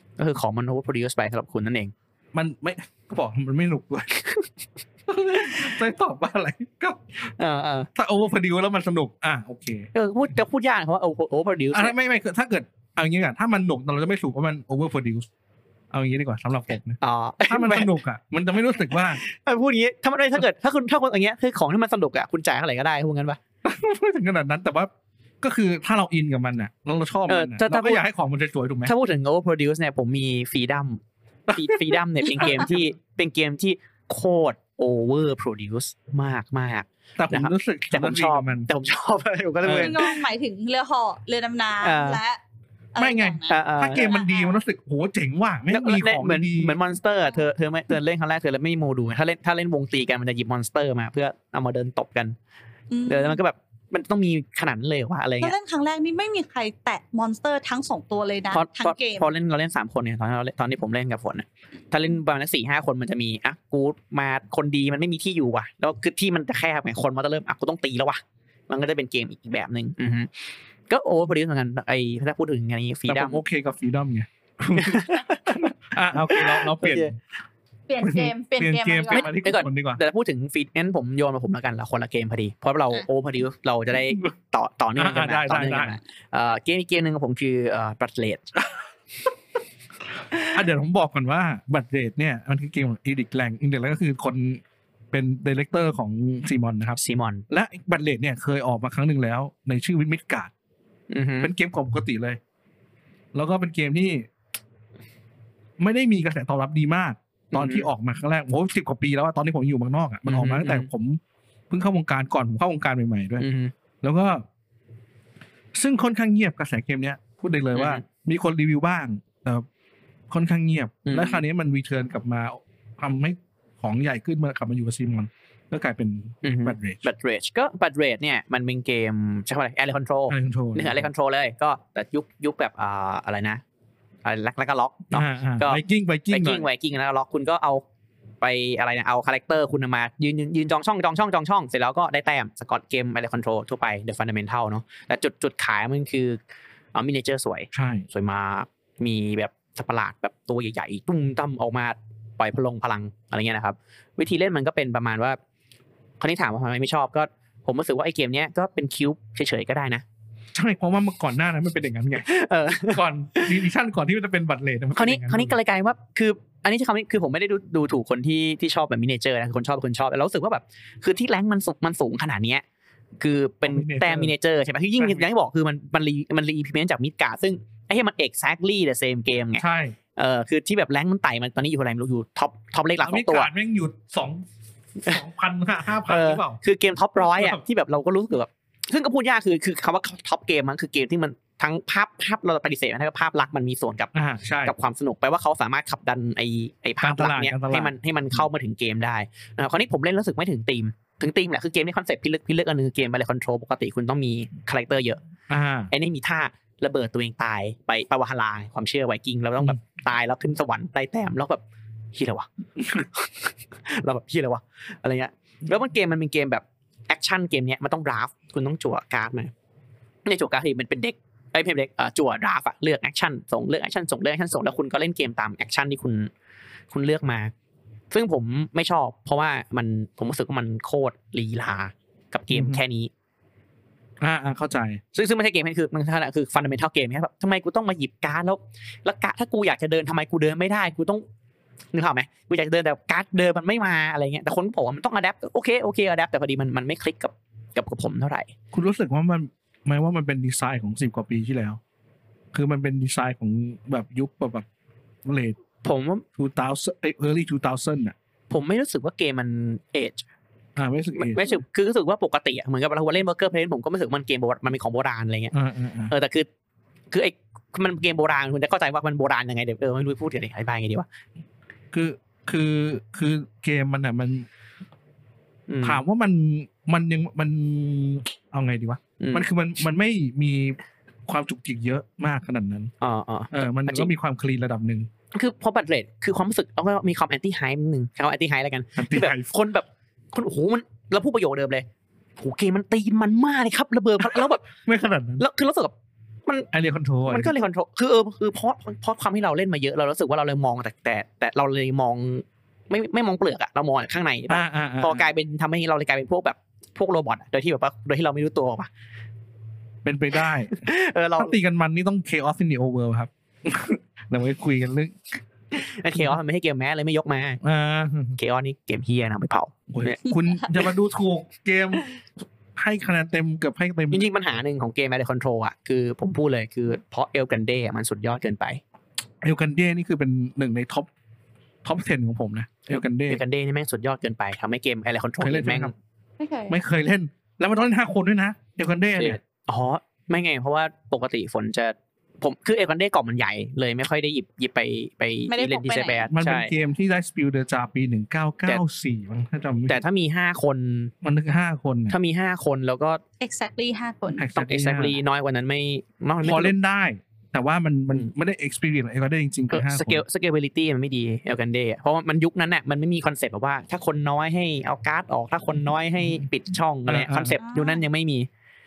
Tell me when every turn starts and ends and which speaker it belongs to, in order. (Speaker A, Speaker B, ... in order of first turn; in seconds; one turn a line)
Speaker A: 0.2-1.9
Speaker B: 2.3-4.1
Speaker B: 5.1-7.3
Speaker A: 7.4-7.9
Speaker B: 7.9-9.9
Speaker A: 9.9-11.9
Speaker B: 11.7-15.3
Speaker B: 15.9-19.2
Speaker A: 17.0-17.9
Speaker A: 18.9-23.4
Speaker B: 23.6-24.9
Speaker B: 25.4-28.9
Speaker A: 27.3-28.0
Speaker A: 28.8-31.0
Speaker B: 31.5-32.8
Speaker A: 31.5-40.2
Speaker B: 37.2-38.7
Speaker B: 39.6-40.0
Speaker C: 39.8-42.4
Speaker A: 41.8-42.2
Speaker C: 42.9-44.6
Speaker B: 43.0-46.8
Speaker A: 43.5-44.1
Speaker A: 45.7-52.4
Speaker C: 52.9-53.4
Speaker A: 53.0-55.5
Speaker C: 55.4-59.3
Speaker A: 58.5-70.3
Speaker A: 70.9-73.4
Speaker B: 73.1-77.2
Speaker A: 74.8-77.1
Speaker C: 77.9-79.3
Speaker B: 78.0-80.0
Speaker A: 79.1-88.5
Speaker B: 85.0-86.0
Speaker B: 90.4-94.6
Speaker B: 95.1-97.0
Speaker A: 97.0-97.4
Speaker B: 97.5-100.5
Speaker A: 101.1-101.5
Speaker B: 101.4-102.4
Speaker B: 103.3-104.3
Speaker B: 105.8-113.5
Speaker A: 107.5-107.9
Speaker A: 110.2-110.9
Speaker A: 113.4-113.7
Speaker B: 114.0-114.4
Speaker B: 115.7-119.7
Speaker A: 117.7-118.0
Speaker B: 120.3-127.0
Speaker A: 121.0-121.4
Speaker A: 126.4-133.6
Speaker B: 130.3-131.1
Speaker A: 134.2-137.8
Speaker B: 135.1-136.7
Speaker A: 138.4-146.4
Speaker A: 146.9-155.4
Speaker B: 147.7-148.0
Speaker A: 156.2-160.0
Speaker B: 160.5-162.3
Speaker A: 162.2-163.6
Speaker B: 162.9-165.6
Speaker A: 164.9-172.6
Speaker A: 173.2-179.6
Speaker B: 173.6-174.3
Speaker B: 175.0-175.2
Speaker B: 179.6-179.9
Speaker A: 180.2-183.5
Speaker B: 183.0-184.4
Speaker B: 185.0-186.6
Speaker A: 186.1-194.1
Speaker B: 187.2-187.6
Speaker B: 194.1-194.7
Speaker A: 194.6-205.2
Speaker B: 197.0-197.9
Speaker B: 205.5-205.9
Speaker A: 205.9-211.6
Speaker A: 212.1-219.5
Speaker B: 212.8-213.1
Speaker A: 220.2-226.3
Speaker A: 226.9-227.5
Speaker A: 228.1-233.1
Speaker B: 232.5-232.8
Speaker B: 234.2-235.0
Speaker A: 235.1-241.2
Speaker A: 241.9-248.5
Speaker B: 248.7-251.8
Speaker B: 252.5-254.7
Speaker B: 255.2-255.6
Speaker A: 255.8-256.2
Speaker B: 256.4-258.1
Speaker A: 258.5-260.2
Speaker B: 260.8-261.6
Speaker A: 261.1-265.5
Speaker B: 265.5-266.1
Speaker A: 266.1-266.5
Speaker A: 267.1-271.1
Speaker B: 271.9-274.5
Speaker A: 275.7-276.0
Speaker B: 275.8-282.9
Speaker A: 279.2-279.4
Speaker A: 283.0-284.1
Speaker B: 283.5-285.1
Speaker A: 285.3-291.9
Speaker B: 289.0-289.5
Speaker A: 292.4-294.6
Speaker B: 294.2-295.4
Speaker A: 295.4-295.9
Speaker B: 296.7-297.5
Speaker A: 297.3-308.9
Speaker B: 304.5-305.3
Speaker B: 310.0-315.4
Speaker A: 310.4-311.5
Speaker A: 315.7-317.6
Speaker B: 317.6-318.4
Speaker A: 318.4-320.4
Speaker B: 319.9-322.1
Speaker B: 322.8-324.3
Speaker A: 324.1-328.8
Speaker B: 329.4-331.1
Speaker B: 331.8-333.4
Speaker A: 333.3-335.9
Speaker B: 335.4-335.9
Speaker C: 336.4-336.8
Speaker B: 336.7-339.4
Speaker A: 339.2-346.7
Speaker C: 345.5-346.3
Speaker B: 346.3-350.0
Speaker A: 349.9-351.1
Speaker B: 351.2-352.1
Speaker A: 352.1-353.2
Speaker C: 353.4-354.4
Speaker B: 354.4-355.1
Speaker A: 354.5-356.7
Speaker B: 356.4-360.2
Speaker A: 359.7-368.5
Speaker B: 367.1-367.6
Speaker C: 367.6-368.0